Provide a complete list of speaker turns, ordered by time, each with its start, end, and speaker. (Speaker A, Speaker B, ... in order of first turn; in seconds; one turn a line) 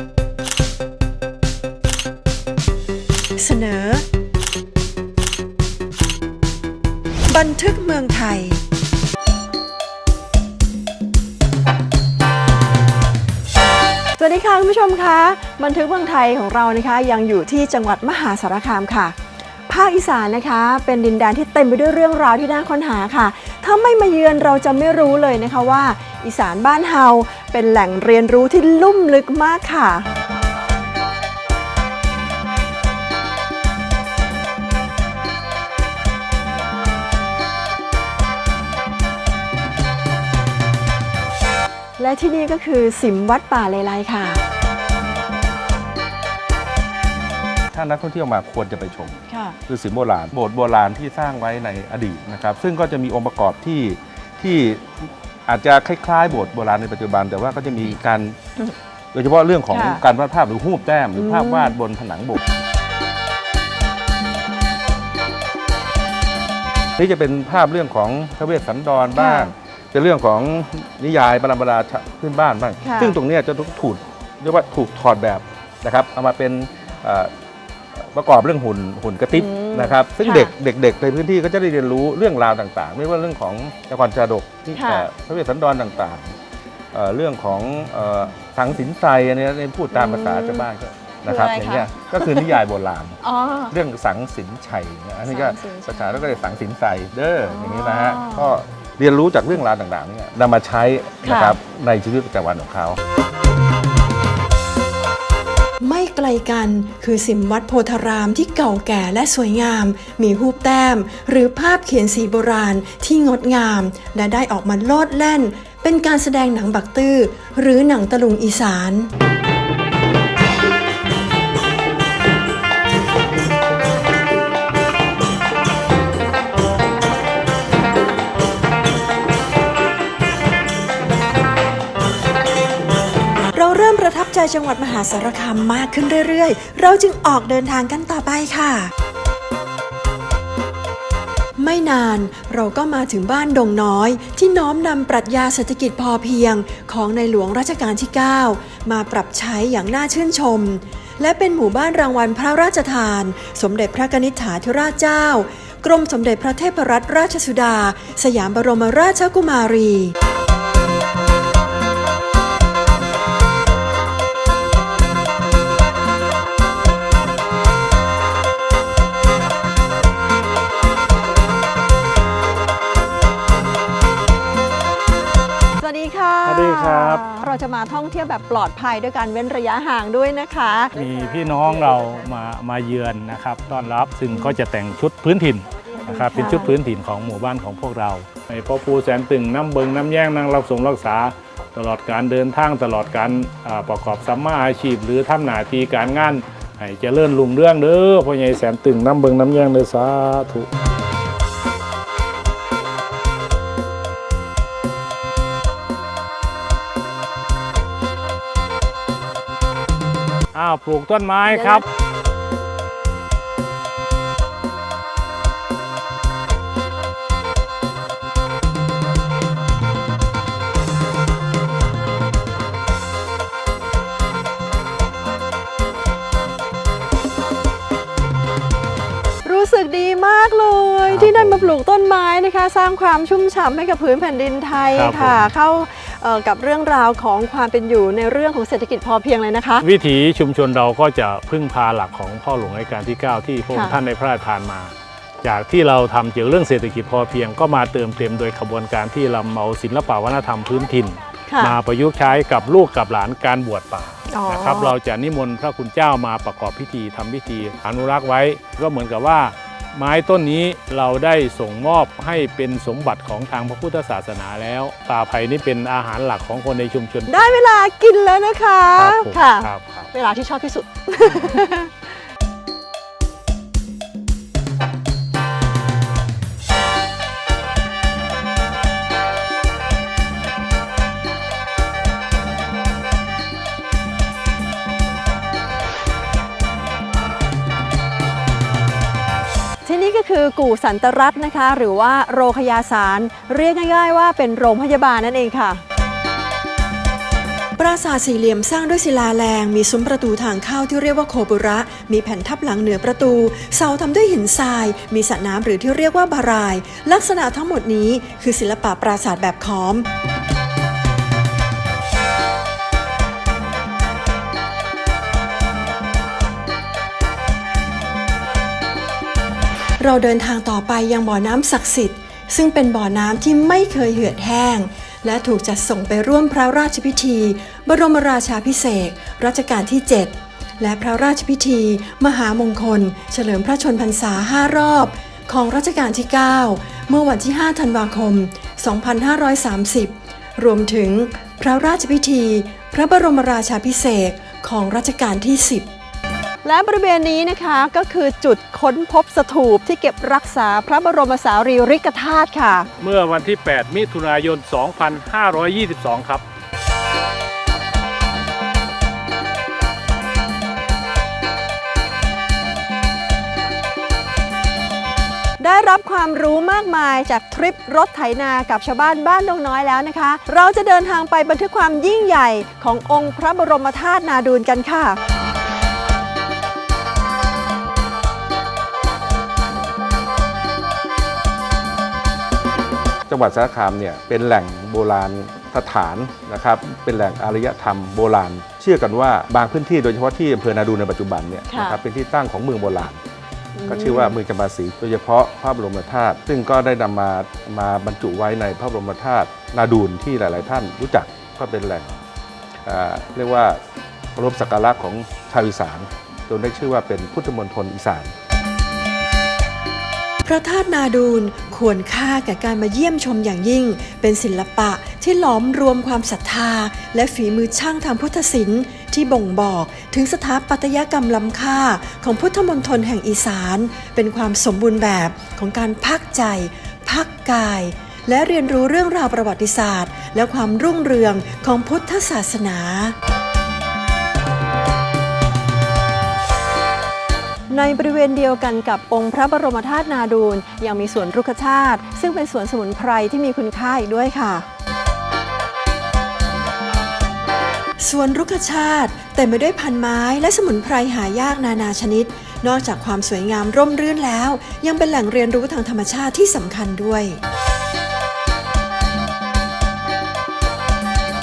Speaker A: 3.4-4.0
Speaker A: 7.3-8.6
Speaker A: 14.2-19.2
Speaker A: 19.7-30.1
Speaker A: 42.0-44.4
Speaker B: 47.7-58.4
Speaker A: 49.3-49.6
Speaker B: 59.1-62.4
Speaker A: 59.7-60.0
Speaker A: 61.2-61.8
Speaker B: 67.0-77.3
Speaker A: 69.2-69.5
Speaker A: 72.8-73.2
Speaker B: 78.1-86.3
Speaker A: 79.3-80.5
Speaker A: 84.8-85.1
Speaker B: 86.9-103.0
Speaker A: 89.9-90.7
Speaker A: 91.3-92.6
Speaker A: 93.2-93.8
Speaker A: 95.2-96.1
Speaker A: 97.5-98.5
Speaker A: 101.2-101.6
Speaker A: 105.8-119.1
Speaker A: 133.5-138.9
Speaker A: 141.6-160.1
Speaker A: 175.8-180.9
Speaker C: 176.4-177.3
Speaker C: 180.9-200.7
Speaker A: 186.0-186.7
Speaker C: 210.5-211.8
Speaker A: 211.6-211.8
Speaker A: 229.4-239.9
Speaker C: 231.1-231.7
Speaker C: 234.9-235.5
Speaker C: 239.8-267.4
Speaker A: 243.7-244.0
Speaker A: 251.5-251.8
Speaker A: 254.3-255.0
Speaker A: 267.3-271.9
Speaker C: 269.0-270.1
Speaker A: 289.9-295.8
Speaker A: 297.8-310.1
Speaker A: 320.0-345.9
Speaker A: 346.6-352.9
Speaker C: 353.0-356.4
Speaker A: 365.6-375.2
Speaker B: 383.3-393.2
Speaker A: 391.7-392.0
Speaker A: 393.8-394.4
Speaker B: 393.9-402.2
Speaker B: 402.9-403.8
Speaker B: 404.4-408.3
Speaker A: 410.4-433.2
Speaker A: 437.7-444.7
Speaker A: 448.0-457.4